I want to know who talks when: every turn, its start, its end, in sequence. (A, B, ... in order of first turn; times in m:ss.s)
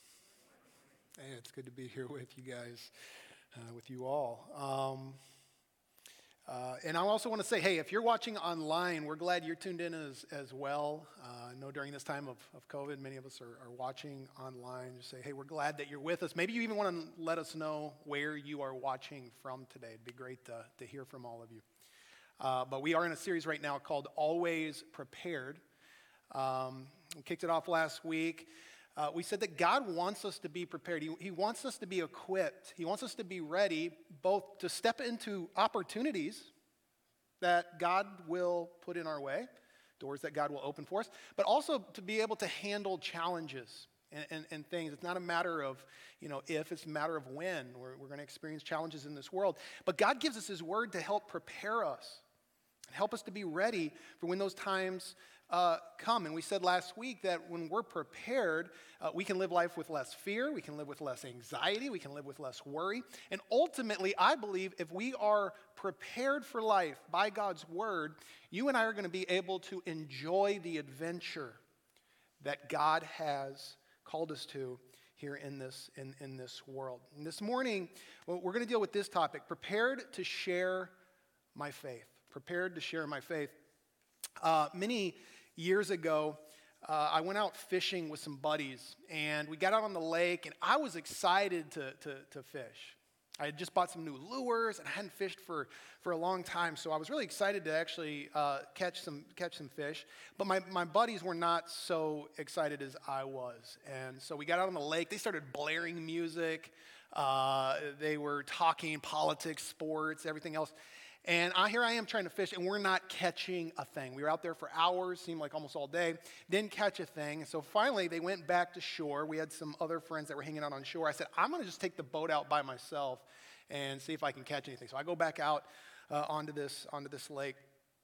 0:01.2-0:02.9 A
0:03.5-0:05.2 A
0:06.5-0:21.6 A
0:22.4-0:25.6 A
0:26.3-0:36.5 A
0:37.4-0:39.5 A
0:40.0-0:52.2 A
0:52.9-1:11.6 A
1:12.4-1:20.9 A
1:21.6-1:23.6 A
1:24.4-1:50.7 A
1:51.2-2:07.7 A